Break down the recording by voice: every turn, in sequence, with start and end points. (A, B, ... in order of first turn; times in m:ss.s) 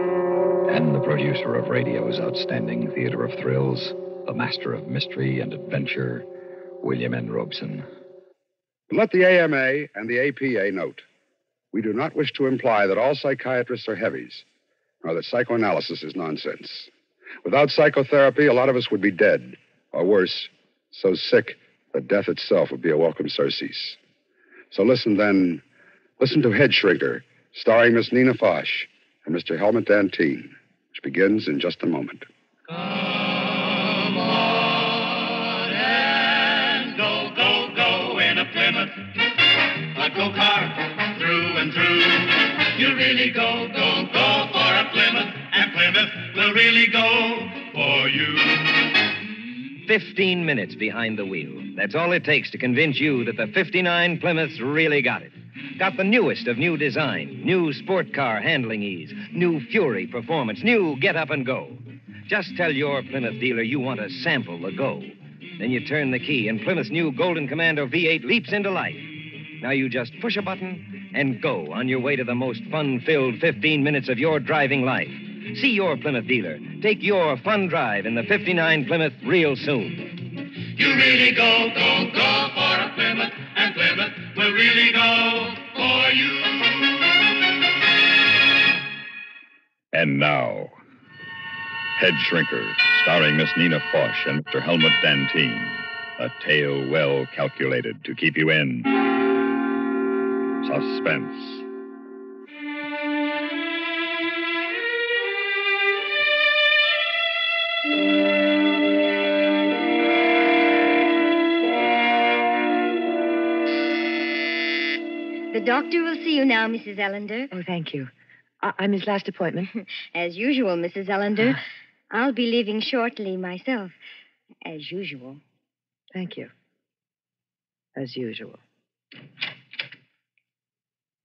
0:00.7-0:06.2 A
0:06.8-0:07.9 A
0:08.9-0:11.0 B
0:11.7-0:14.4 B
0:15.0-0:16.9 B
0:17.4-0:24.0 B
0:24.7-0:25.6 B
0:26.2-0:32.3 B
0:36.8-0:39.0 C
0:39.9-0:48.4 C
0:49.8-1:20.2 D
1:20.8-1:26.3 C
1:29.9-1:30.8 A
1:32.0-1:39.1 A
1:40.6-1:41.6 A
1:55.5-1:57.5 E
1:57.5-1:59.7 F
2:00.1-2:04.0 E
2:04.6-2:05.4 E
2:06.1-2:06.5 F
2:08.0-2:08.6 F